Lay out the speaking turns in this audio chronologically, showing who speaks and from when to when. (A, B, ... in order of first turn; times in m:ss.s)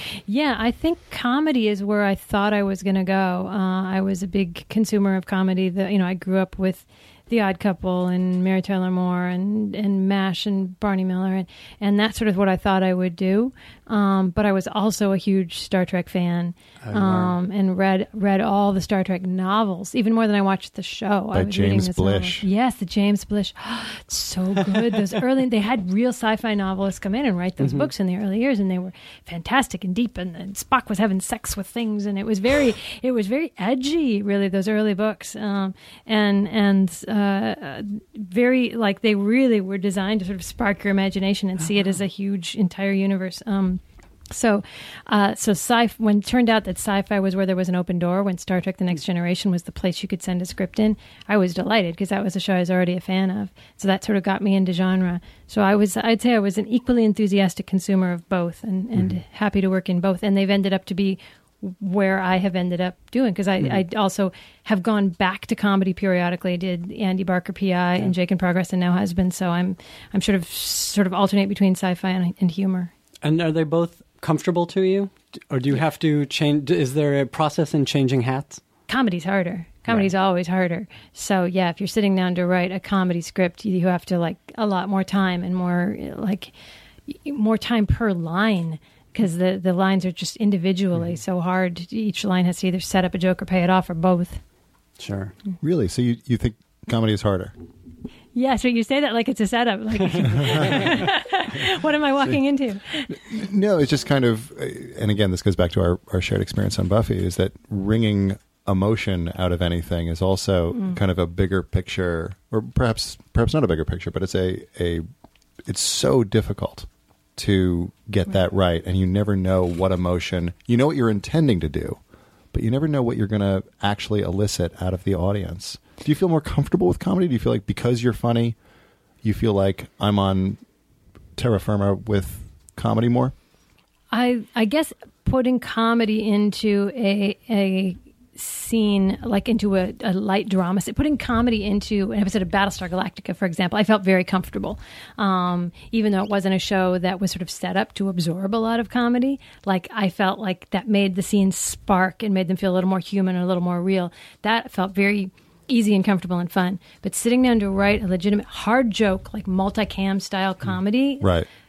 0:00.3-1:12.9 A
0:16.8-0:17.4 B
0:21.3-0:22.5 C
0:27.6-0:27.9 B
1:13.2-1:18.6 B
1:18.9-1:26.5 A
1:27.1-1:34.4 A
1:35.0-1:35.4 B
1:35.6-1:37.5 C
1:38.4-1:43.2 A
1:40.2-1:41.0 B
1:43.1-1:55.0 C
1:55.7-2:02.0 C
2:02.5-2:08.6 C
2:09.2-2:10.6 C
2:11.4-2:13.3 C
2:14.1-2:41.3 A
2:41.2-2:41.5 C